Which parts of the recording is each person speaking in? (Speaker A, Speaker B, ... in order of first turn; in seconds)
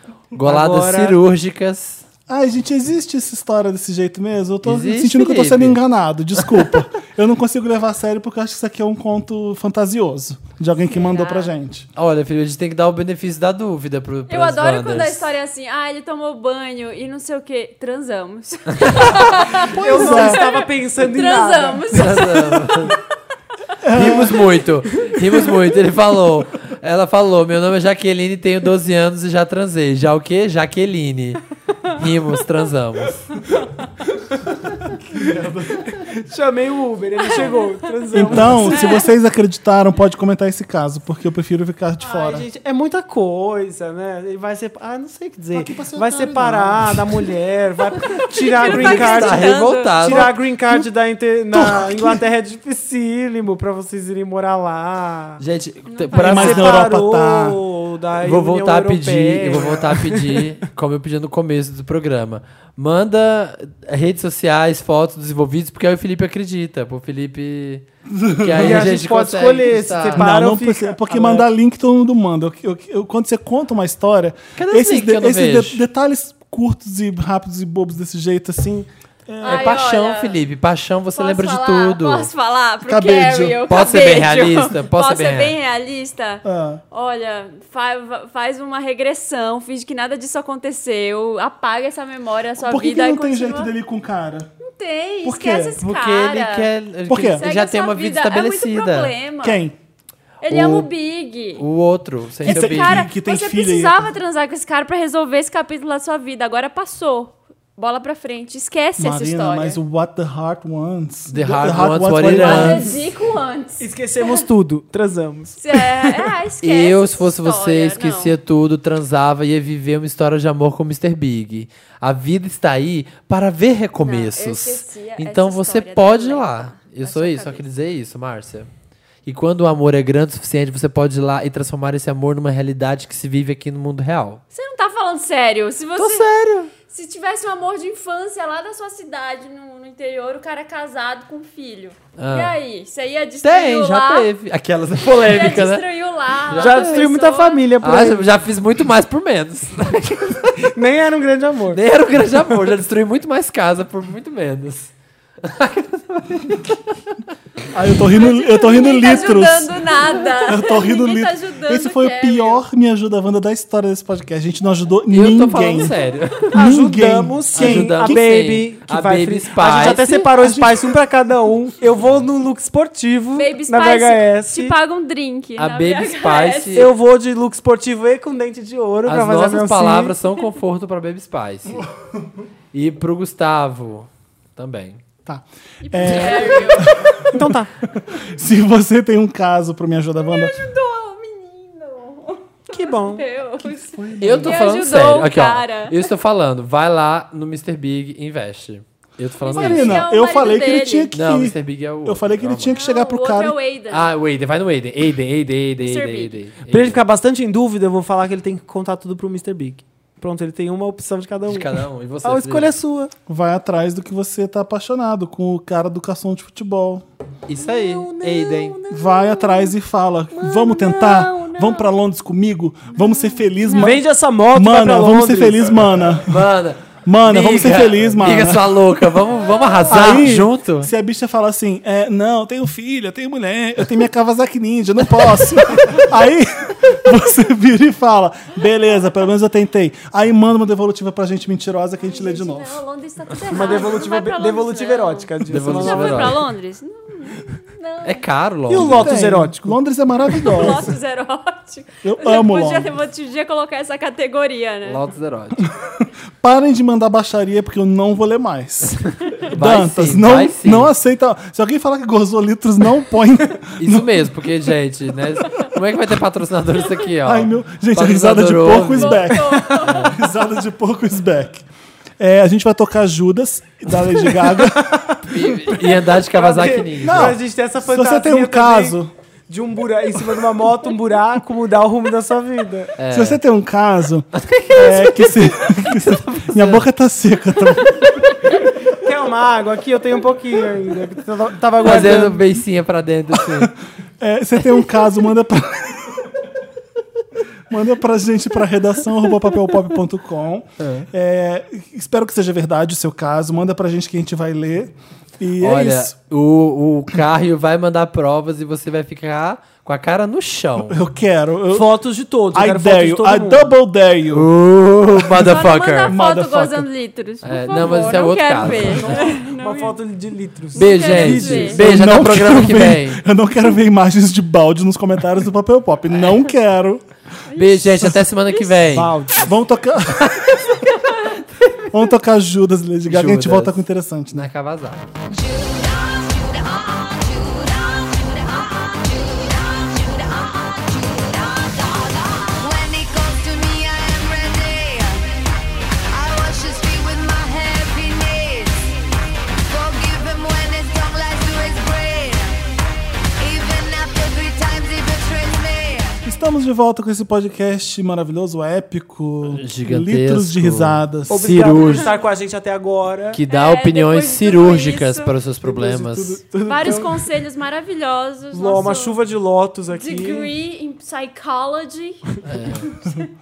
Speaker A: 0.3-2.0, 4.6-5.8, 12.0-15.3, 21.9-23.0, 23.9-33.4, 48.6-50.4, 55.4-56.9, 58.2-67.8, 68.4-70.3, 74.6-75.8, 79.4-82.3, 83.7-85.6, 95.8-99.1, 101.6-103.0, 111.3-112.9, 116.6-128.7, 129.3-134.4, 136.0-136.7, 142.2-142.6, 143.4-145.9, 146.5-147.1, 147.8-150.6, 151.7-156.9, 165.1-166.6, 167.5-170.3, 175.6-176.9, 179.1-181.8, 182.7-185.0, 194.2-200.1, 201.1-202.8, 203.9-207.0, 211.5-212.7, 217.5-218.8, 226.2-230.9, 245.5-246.4, 248.1-249.2, 254.8-255.7, 259.3-260.9, 263.8-270.2, 275.3-277.4, 283.0-283.4, 284.4-286.9, 291.8-293.8, 300.8-301.1, 305.6-311.0, 314.3-316.1, 317.4-319.1, 320.8-323.2, 327.6-329.1, 330.1-330.8, 331.6-331.9, 333.1-335.1, 359.5-362.1, 363.3-366.4, 372.4-372.9
Speaker B: 0.4-1.2, 19.3-22.1, 35.9-39.0, 42.0-55.4, 56.2-60.4, 68.6-71.5, 113.8-115.9, 146.6-148.3, 150.6-151.8, 166.5-174.8, 176.8-180.1, 187.3-187.7, 192.7-193.2, 206.7-213.1, 217.6-218.7, 223.8-225.8, 243.5-246.4, 248.7-249.8, 274.3-279.0, 279.5-282.9, 288.8-292.4, 311.7-313.7, 317.8-322.0, 328.9-329.5, 361.3-363.4, 366.8-367.1, 368.5-370.5
Speaker C: 2.3-11.9, 19.6-20.5, 23.8-24.5, 35.1-36.0, 38.1-42.5, 45.5-47.2, 51.5-52.2, 56.1-57.6, 68.1-68.9, 70.1-79.8, 82.9-83.6, 86.4-86.8, 92.6-94.5, 95.2-95.8, 97.1-97.4, 99.4-99.8, 100.5-100.9, 102.4-104.1, 109.0-113.0, 157.7-165.9, 166.5-168.2, 169.8-170.9, 185.3-190.6, 193.6-194.7, 199.5-203.6, 213.3-217.1, 218.9-226.5, 227.0-228.8, 229.9-242.8, 248.7-250.9, 252.0-252.9, 255.6-264.3, 267.2-271.7, 272.2-275.1, 277.0-279.1, 283.1-288.4, 293.4-296.4, 297.7-306.1, 310.9-311.9, 312.5-314.5, 315.1-316.9, 321.7-327.0, 328.0-328.3, 329.4-330.6, 331.9-334.5, 356.2-361.9, 365.7-367.1
Speaker D: 10.9-11.5, 14.3-22.6, 37.3-37.7, 38.3-39.1, 48.4-50.0, 55.9-56.3, 79.4-80.4, 81.2-93.7, 94.6-96.7, 97.3-99.6, 100.4-101.7, 102.4-109.8, 112.3-114.4, 115.6-118.4, 124.0-127.7, 134.5-136.3, 136.9-144.3, 145.2-147.7, 158.2-162.6, 173.3-176.9, 185.8-187.3, 190.2-196.0, 199.4-201.1, 202.7-204.1, 205.8-206.4, 218.7-219.8, 220.3-221.9, 222.9-224.0, 229.4-230.1, 242.0-248.3, 250.4-255.0, 268.9-270.2, 315.4-320.0, 320.7-321.8, 327.5-328.6, 363.5-365.3, 366.6-369.2, 369.9-372.2
Speaker E: 335.3-345.2, 346.1-348.9, 349.6-352.6, 353.4-356.2